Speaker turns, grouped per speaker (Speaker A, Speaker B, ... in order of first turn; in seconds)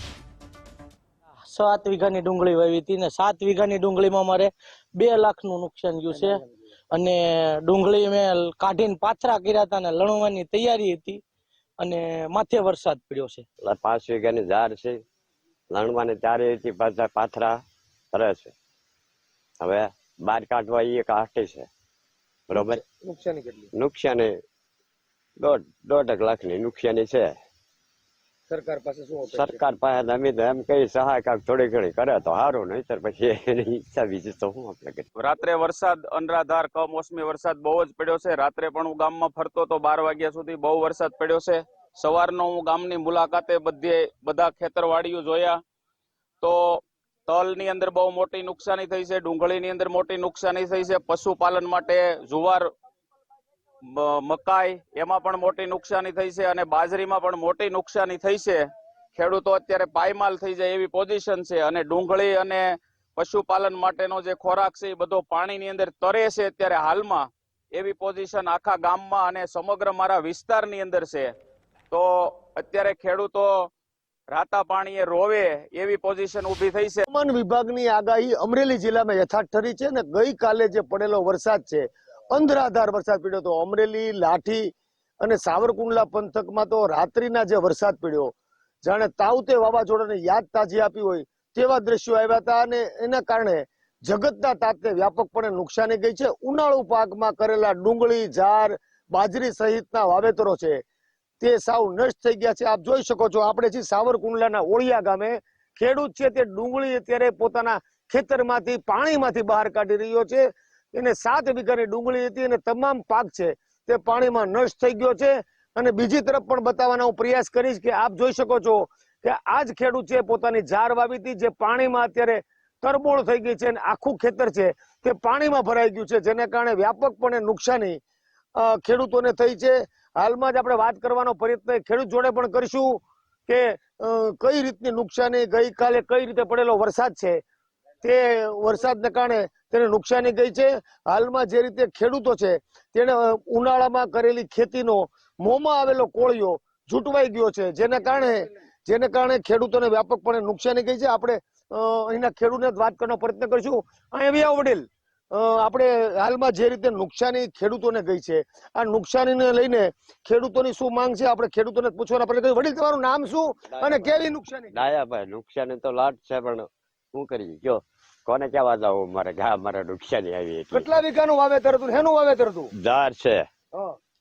Speaker A: 1.5-11.2, 11.8-13.4
Speaker B: 13.6-15.0, 15.7-17.6, 18.1-18.5, 19.6-21.7, 22.5-22.8, 23.7-24.4, 25.4-27.3, 29.3-35.0, 163.7-164.2, 164.7-170.9, 172.8-173.5
Speaker C: 22.5-23.7, 28.5-29.6, 77.1-88.3, 88.8-100.8, 101.4-128.0, 128.6-137.4, 138.0-164.8, 170.7-172.7
Speaker D: 35.2-45.6, 46.4-52.7, 53.9-71.3, 71.9-73.7, 74.3-77.0